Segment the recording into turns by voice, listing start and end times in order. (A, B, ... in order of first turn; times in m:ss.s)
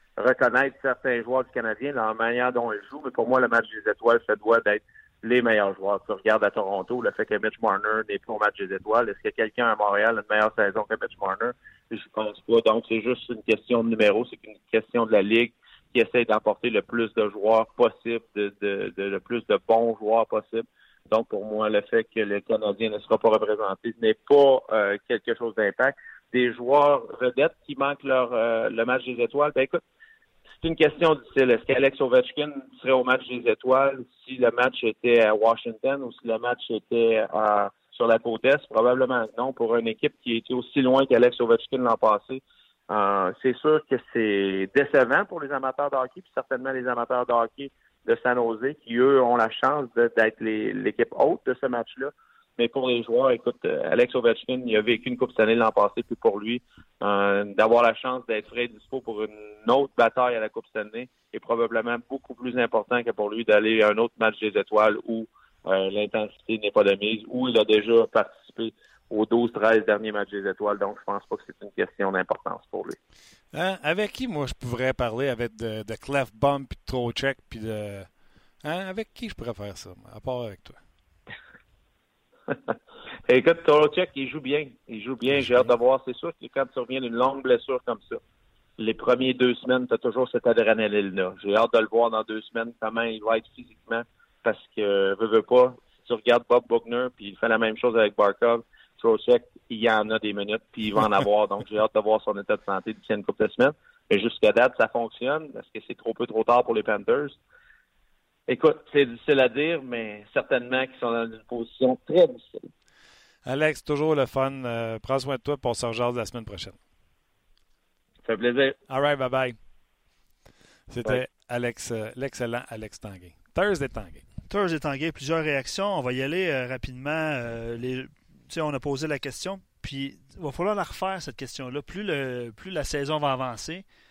0:00.2-0:29.8 A
0:30.6-1:13.0 A
1:13.5-1:20.8 B
1:23.3-1:28.2 A
1:25.4-1:25.6 B
1:28.8-1:47.4 A
1:48.5-1:52.7 A
1:53.4-1:56.8 B
1:58.2-1:58.8 A
1:58.9-1:59.6 B
2:00.9-2:04.2 B
2:04.5-2:13.8 C